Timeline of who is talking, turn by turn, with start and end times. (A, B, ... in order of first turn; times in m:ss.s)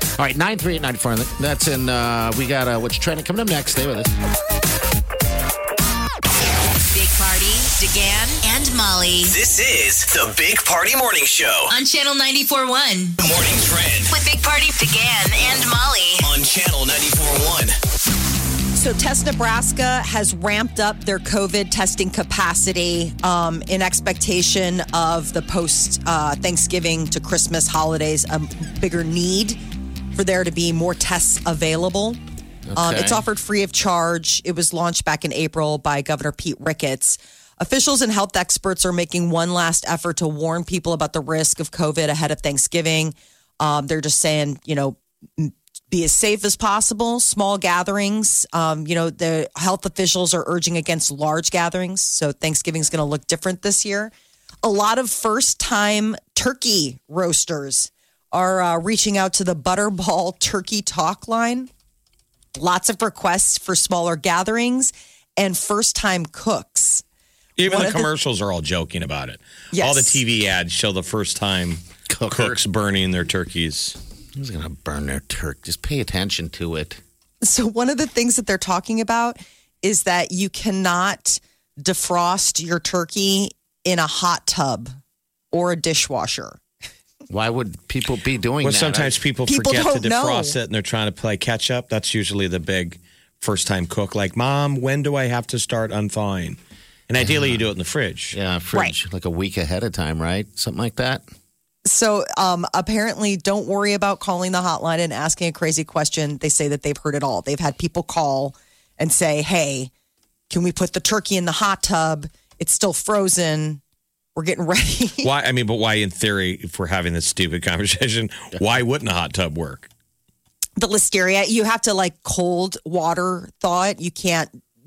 0:00.2-0:04.1 A
0:06.9-0:09.4 B
0:09.3-0:11.7 C
0:11.7-0:13.2 B
0:13.2-0:14.1 C
0:14.1-0:16.3 B
0:16.2-0:17.8 C
0:18.8-0:29.6 D
0:30.1-0:32.2 D
0:32.7-0:33.2 A
0:32.8-0:54.1 D
0:54.6-1:01.7 D
1:02.6-1:07.0 D
1:07.6-1:14.0 E
1:07.6-1:08.1 D
1:09.7-1:10.2 D
1:12.1-1:12.6 A
1:14.3-1:17.0 A
1:17.4-1:25.0 D
1:25.5-1:26.6 D
1:27.3-1:29.2 A
1:28.6-1:38.4 E
1:29.5-1:30.6 D
1:37.2-1:37.6 A
1:38.3-1:41.2 A
1:41.8-1:49.9 D
1:50.5-1:53.8 D
1:54.4-1:55.3 D
1:55.2-1:59.9 E
2:00.8-2:04.6 D